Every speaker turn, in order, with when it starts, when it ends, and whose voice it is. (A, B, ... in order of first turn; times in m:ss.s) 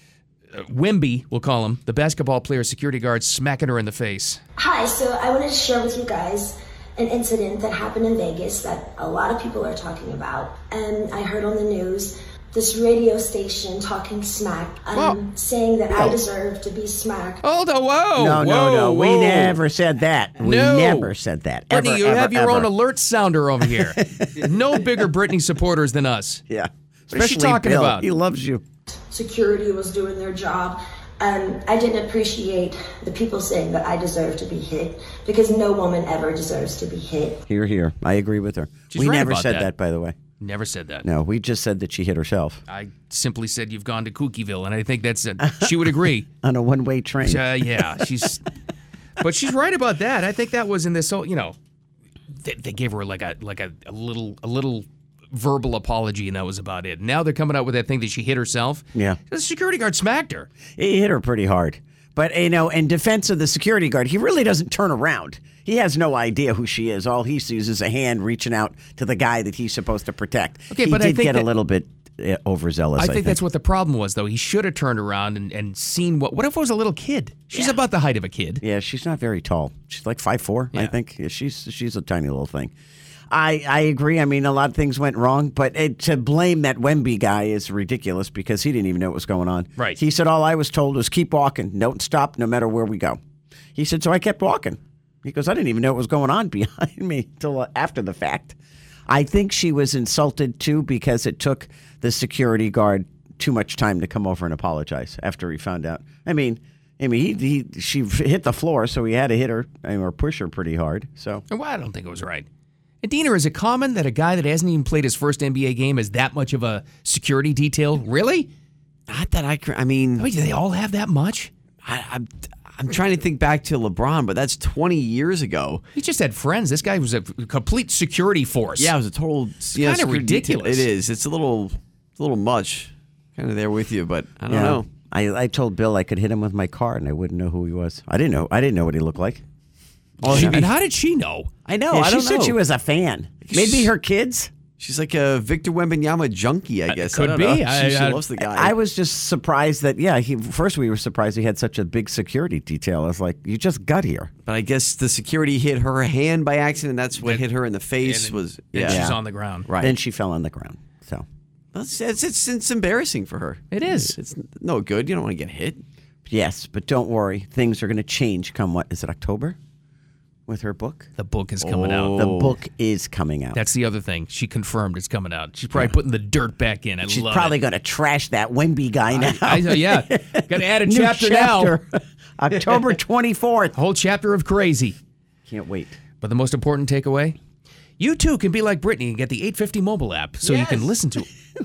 0:00.5-0:04.4 A
0:04.6-0:17.4 B
0:14.9-0:15.2 A
0:17.4-0:19.6 A
0:18.2-0:22.7 C
0:20.4-0:21.1 A
0:21.7-0:26.4 A
0:23.6-0:25.0 C
0:26.5-0:28.6 C
0:27.1-0:28.1 A
0:29.0-0:37.4 B
0:37.5-0:40.2 C
0:38.9-0:39.7 A
0:40.4-0:41.1 A
0:41.0-0:42.6 C
0:42.7-0:46.3 A
0:45.4-0:48.0 C
0:47.2-0:48.4 A
0:49.2-0:51.6 A
0:52.3-1:00.5 A
1:00.7-1:13.4 C
1:10.7-1:11.5 A
1:13.0-1:18.6 A
1:18.6-1:22.7 C
1:23.3-1:33.2 C
1:33.7-1:38.6 C
1:39.1-1:51.4 C
1:51.5-1:52.5 A
1:53.0-1:58.5 A
1:59.1-2:00.2 D
2:00.2-2:01.5 A
2:01.8-2:05.8 D
2:05.9-2:08.9 A
2:08.8-2:14.8 D
2:09.7-2:10.9 A
2:14.5-2:19.4 C
2:20.2-2:20.7 C
2:20.2-2:20.7 D
2:20.2-2:21.5 A
2:21.7-2:22.6 D
2:21.8-2:24.5 C
2:23.4-2:23.9 D
2:24.8-2:28.7 D
2:26.9-2:28.2 A
2:28.4-2:34.3 C
2:34.4-2:39.1 D
2:38.0-2:39.7 A
2:38.8-2:39.2 C
2:39.7-2:39.9 D
2:39.8-2:41.2 C
2:41.7-2:45.8 D
2:43.7-2:44.2 A
2:46.3-2:49.6 C
2:50.5-2:51.1 C
2:51.2-2:52.2 A
2:51.6-2:52.6 D
2:52.2-2:53.6 C
2:53.5-2:57.6 A
2:57.1-3:03.7 C
2:59.1-3:01.8 A
3:03.7-3:05.0 A
3:05.5-3:05.9 C
3:06.2-3:07.4 A
3:08.0-3:11.3 A